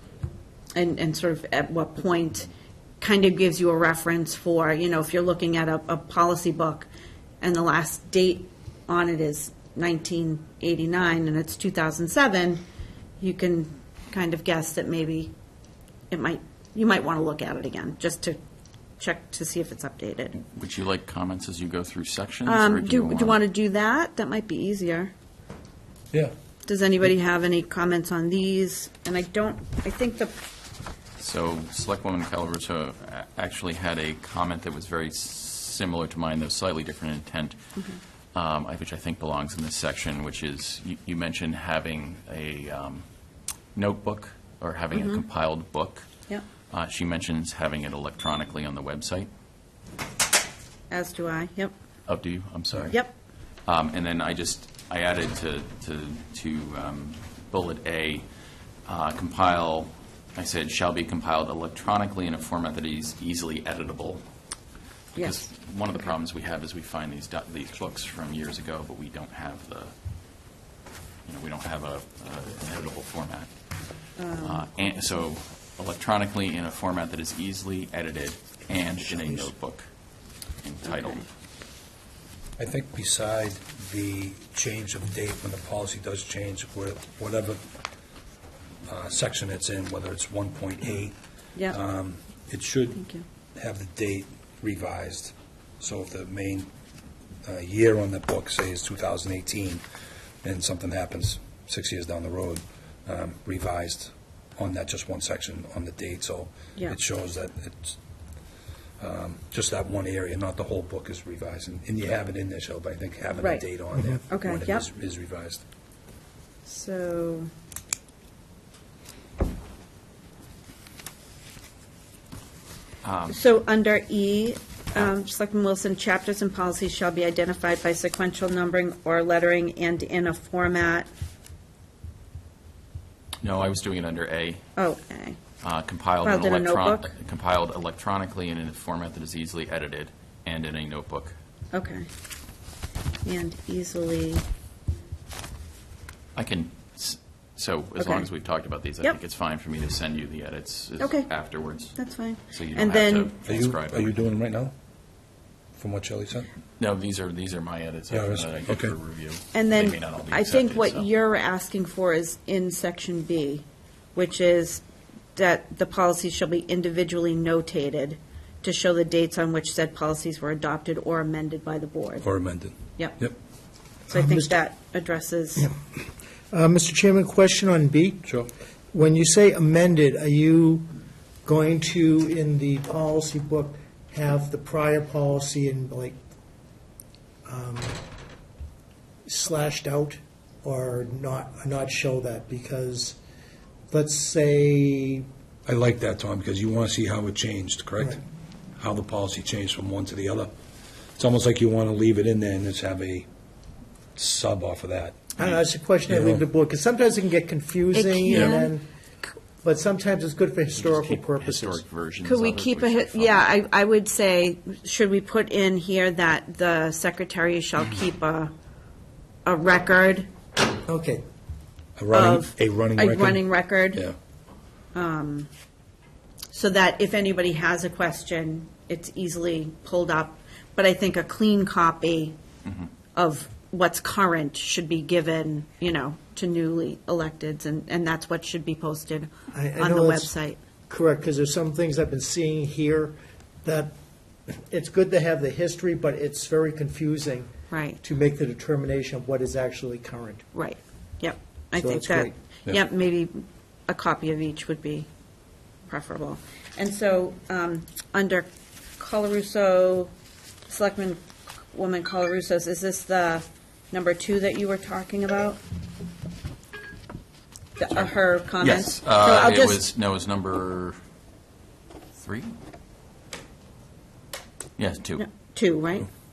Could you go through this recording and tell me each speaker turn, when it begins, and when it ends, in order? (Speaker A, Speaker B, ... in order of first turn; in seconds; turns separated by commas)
Speaker A: 0.8-2.5, Speaker A: 3.0-6.9, Speaker A: 7.4-12.6, Speaker A: 13.2-15.3, Speaker A: 16.1-18.4, Speaker A: 19.0-20.4, Speaker B: 20.4-23.4, Speaker A: 22.4-25.1, Speaker A: 26.6-30.4, Speaker B: 31.2-37.6, Speaker B: 38.4-43.0, Speaker B: 43.8-46.1, Speaker A: 44.9-45.2, Speaker B: 46.7-49.3, Speaker A: 50.9-51.7, Speaker B: 52.1-53.0, Speaker B: 53.7-58.3, Speaker B: 58.9-64.2, Speaker B: 65.2-69.9, Speaker A: 65.2-65.5, Speaker B: 71.3-73.5, Speaker A: 74.2-75.0, Speaker B: 74.4-79.8, Speaker B: 80.6-81.2, Speaker A: 80.9-81.2, Speaker C: 82.6-87.6, Speaker C: 88.9-91.2, Speaker C: 91.7-93.0, Speaker A: 92.9-93.2, Speaker C: 93.6-96.7, Speaker C: 97.5-99.8, Speaker C: 100.4-108.0, Speaker C: 109.0-115.6, Speaker A: 113.4-113.7, Speaker A: 114.3-114.8, Speaker A: 116.7-117.5, Speaker B: 123.0-123.4, Speaker A: 123.3-131.1, Speaker B: 133.4-134.7, Speaker A: 134.8-135.4, Speaker B: 135.6-141.3, Speaker A: 136.2-137.1, Speaker A: 141.7-142.1, Speaker A: 143.2-144.4, Speaker B: 146.3-154.3, Speaker A: 148.0-148.3, Speaker A: 151.0-151.3, Speaker A: 151.9-153.3, Speaker C: 153.5-154.7, Speaker C: 155.8-156.5, Speaker B: 156.8-161.1, Speaker C: 158.1-158.9, Speaker A: 159.5-163.6, Speaker A: 164.2-164.8, Speaker A: 165.4-172.3, Speaker C: 172.2-173.3, Speaker A: 173.0-173.2, Speaker A: 174.1-175.7, Speaker D: 174.1-174.6, Speaker D: 176.5-178.3, Speaker D: 178.9-180.9, Speaker D: 181.4-186.2, Speaker D: 187.5-188.0, Speaker D: 189.3-193.2, Speaker D: 193.9-195.3, Speaker C: 195.7-198.2, Speaker C: 198.8-200.5, Speaker C: 201.2-203.3, Speaker C: 204.2-205.5, Speaker D: 205.4-208.9, Speaker C: 206.1-206.4, Speaker A: 207.9-208.7, Speaker D: 209.6-211.8, Speaker B: 210.8-213.5, Speaker A: 212.2-218.5, Speaker A: 219.4-220.3, Speaker D: 220.9-221.2, Speaker C: 222.0-224.2, Speaker A: 222.1-224.1, Speaker A: 224.9-225.5, Speaker A: 226.5-232.4, Speaker A: 233.1-240.6, Speaker D: 239.5-240.3, Speaker D: 240.9-243.9, Speaker D: 244.5-247.5, Speaker A: 247.7-248.0, Speaker D: 248.0-250.4, Speaker A: 250.5-255.1, Speaker D: 251.8-252.4, Speaker A: 255.9-260.1, Speaker A: 260.7-265.6, Speaker A: 267.8-269.8, Speaker B: 267.9-271.0, Speaker B: 272.2-272.6, Speaker B: 274.8-275.2, Speaker A: 275.2-276.1